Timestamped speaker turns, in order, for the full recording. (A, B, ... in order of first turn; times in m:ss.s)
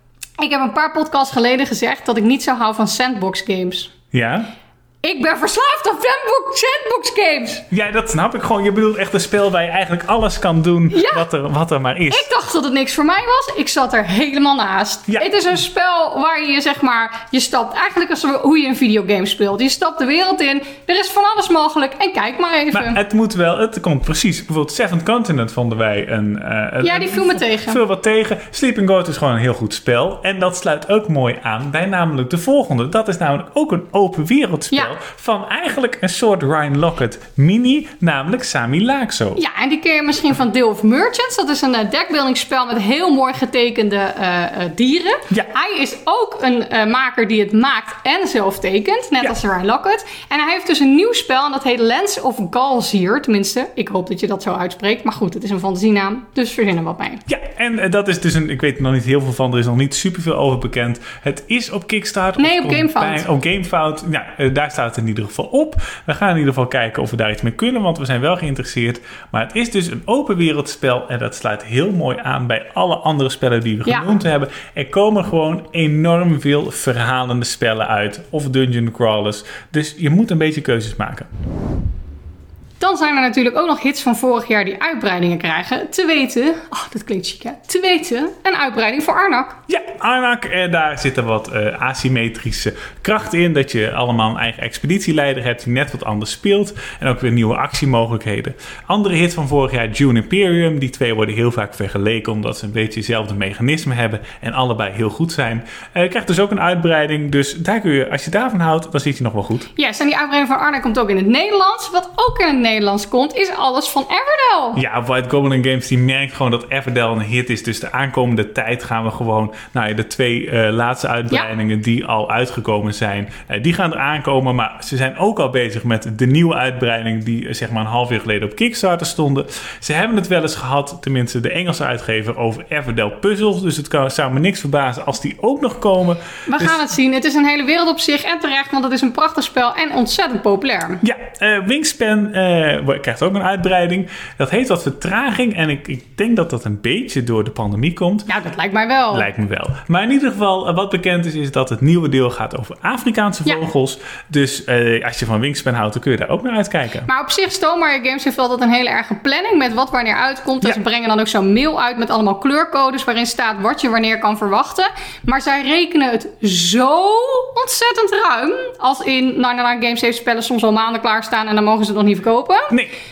0:00.4-0:03.9 A
0:04.1-0:04.5 B
0:05.0-0:07.7 A
0:07.7-0:12.3 B
0:10.9-0:11.3 A
0:12.1-0:23.0 A
0:22.7-0:39.4 B
0:26.8-0:27.8 A
0:39.4-0:57.2 A
0:57.3-1:21.3 B
1:02.4-1:03.2 A
1:22.8-1:29.6 A
1:29.7-1:49.7 B
1:49.8-1:54.8 A
1:54.8-2:16.8 B
2:16.5-2:21.0 A
2:21.0-2:28.3 B
2:28.3-2:29.3 A
2:29.1-2:37.1 B
2:37.1-2:52.8 A